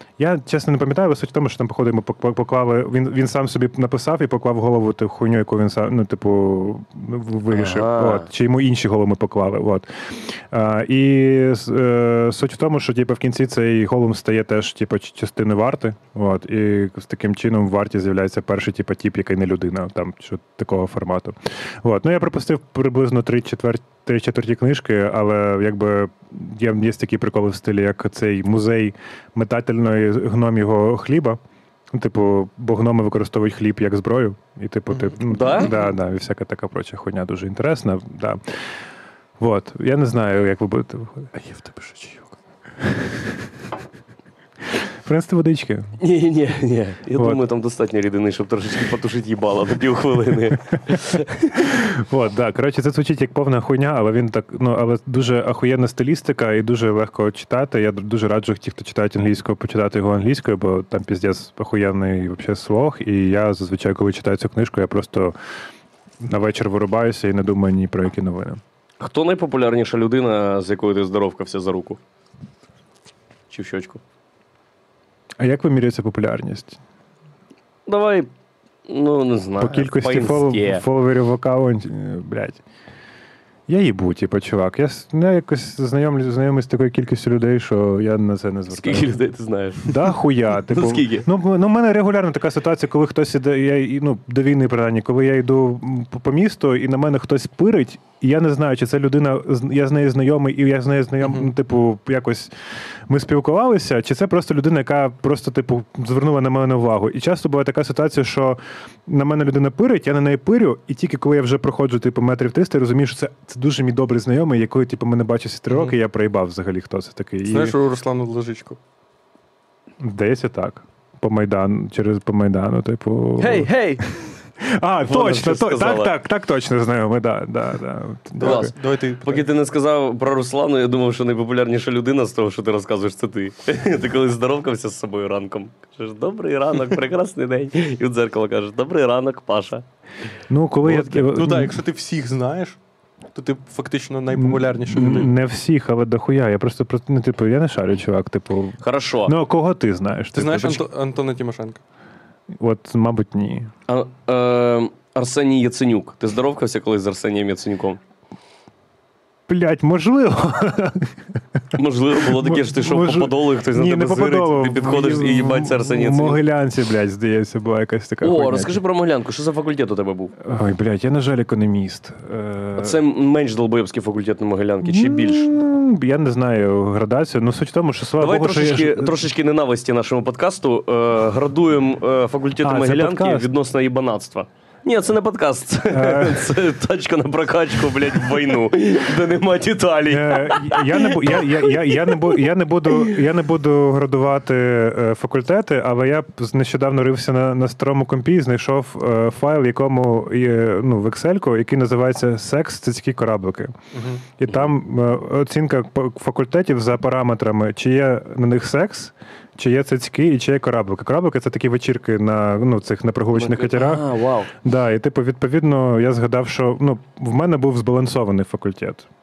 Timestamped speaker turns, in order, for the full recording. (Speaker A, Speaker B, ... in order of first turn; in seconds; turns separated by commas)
Speaker A: 0.2-31.4, Speaker B: 7.5-8.3, Speaker A: 31.9-38.4, Speaker B: 35.2-35.7, Speaker A: 39.4-41.3, Speaker C: 41.3-42.3, Speaker A: 42.8-43.3, Speaker A: 44.7-46.0, Speaker B: 46.0-51.6, Speaker A: 47.1-47.4, Speaker A: 51.5-65.3, Speaker A: 66.2-68.6, Speaker B: 69.0-72.0, Speaker B: 73.5-74.0, Speaker A: 75.4-76.8, Speaker B: 77.9-78.3, Speaker B: 78.8-80.8, Speaker A: 79.6-82.6, Speaker A: 83.7-89.2, Speaker B: 88.7-90.0, Speaker A: 89.8-102.5, Speaker B: 90.7-91.2, Speaker C: 101.2-101.5, Speaker A: 103.1-117.8, Speaker C: 115.7-116.0, Speaker C: 117.5-118.8, Speaker A: 120.0-128.7, Speaker B: 123.4-124.0, Speaker B: 125.0-126.1, Speaker C: 128.4-129.4, Speaker B: 128.4-139.8, Speaker A: 140.5-141.8, Speaker C: 140.8-142.8, Speaker C: 143.3-145.3, Speaker A: 144.3-150.8, Speaker B: 148.8-149.3, Speaker C: 150.3-151.8, Speaker A: 152.5-153.7, Speaker B: 153.9-158.0, Speaker A: 159.5-161.4, Speaker B: 161.7-166.4, Speaker A: 162.2-168.8, Speaker B: 168.2-170.3, Speaker A: 170.4-173.0, Speaker B: 172.8-175.5, Speaker A: 174.8-179.2, Speaker B: 178.2-192.1, Speaker A: 182.6-183.5, Speaker A: 185.9-186.5, Speaker A: 190.1-203.8, Speaker C: 203.9-204.2, Speaker A: 204.4-214.0, Speaker B: 213.3-214.5, Speaker A: 214.6-219.1